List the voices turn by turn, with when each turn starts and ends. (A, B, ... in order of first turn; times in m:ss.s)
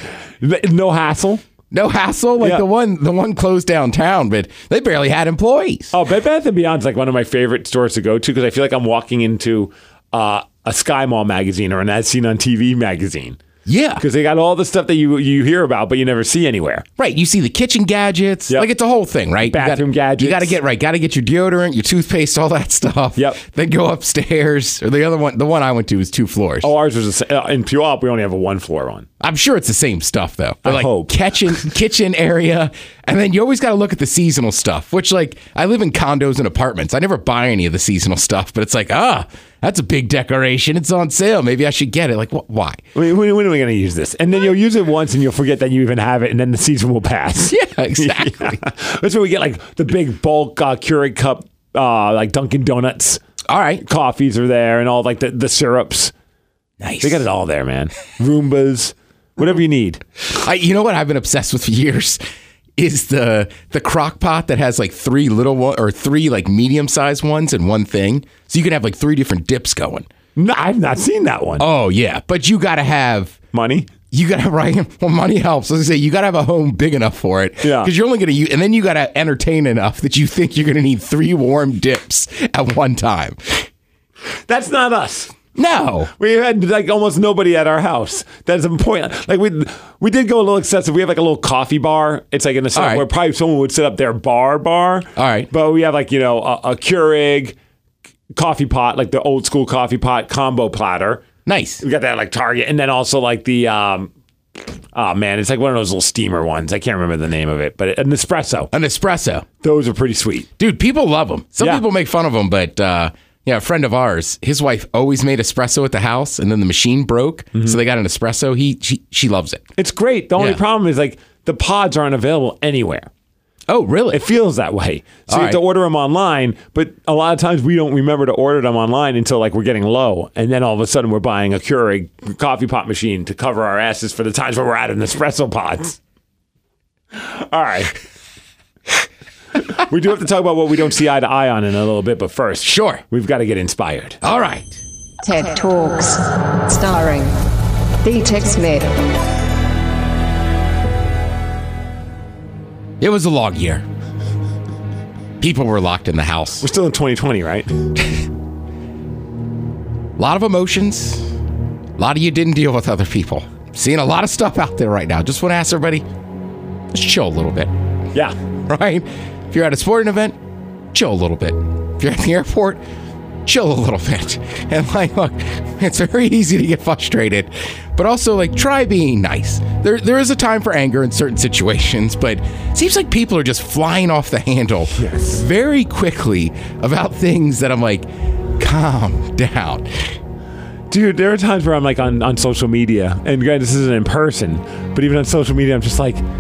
0:00.4-0:01.4 A
0:01.7-0:06.0 B
0:05.9-0:13.4 A
0:13.7-0:14.0 B
0:14.0-0:16.9 A
0:17.0-0:26.7 B
0:19.4-0:20.6 A
0:26.6-0:29.1 A
0:29.2-0:42.8 B
0:30.6-0:31.6 A
0:42.9-0:53.2 A
0:47.5-0:48.6 B
0:53.5-0:53.8 B
0:53.8-0:56.1 A
0:56.8-0:57.2 B
0:57.0-1:00.0 A
1:00.3-1:02.2 B
1:02.8-1:10.1 B
1:10.4-1:11.6 A
1:11.6-1:13.4 B
1:13.5-1:13.9 A
1:14.1-1:23.7 B
1:17.6-1:17.9 A
1:24.5-1:25.4 A
1:25.6-1:26.1 B
1:26.2-1:37.6 A
1:32.7-1:33.0 B
1:35.2-1:35.5 B
1:38.3-1:41.2 A
1:41.4-1:41.8 B
1:41.8-1:44.1 A
1:44.9-1:48.7 A
1:48.7-1:49.4 B
1:49.6-1:50.5 A
1:50.6-1:59.6 B
1:57.5-1:57.8 A
1:59.8-2:03.1 A
2:03.7-2:04.2 B
2:04.1-2:16.0 A
2:05.3-2:05.6 B
2:17.1-2:18.0 A
2:19.8-2:24.2 A
2:22.6-2:23.0 B
2:24.2-2:24.8 B
2:25.2-2:27.3 C
2:28.0-2:29.0 C
2:33.0-2:33.8 B
2:35.4-2:36.6 B
2:36.6-2:37.8 A
2:40.2-2:41.4 B
2:42.0-2:46.1 B
2:46.9-2:47.7 B
2:48.7-2:50.4 B
2:50.9-2:52.8 B
2:53.4-3:08.1 B
3:05.0-3:05.4 A
3:08.6-3:09.9 B
3:10.9-3:16.2 A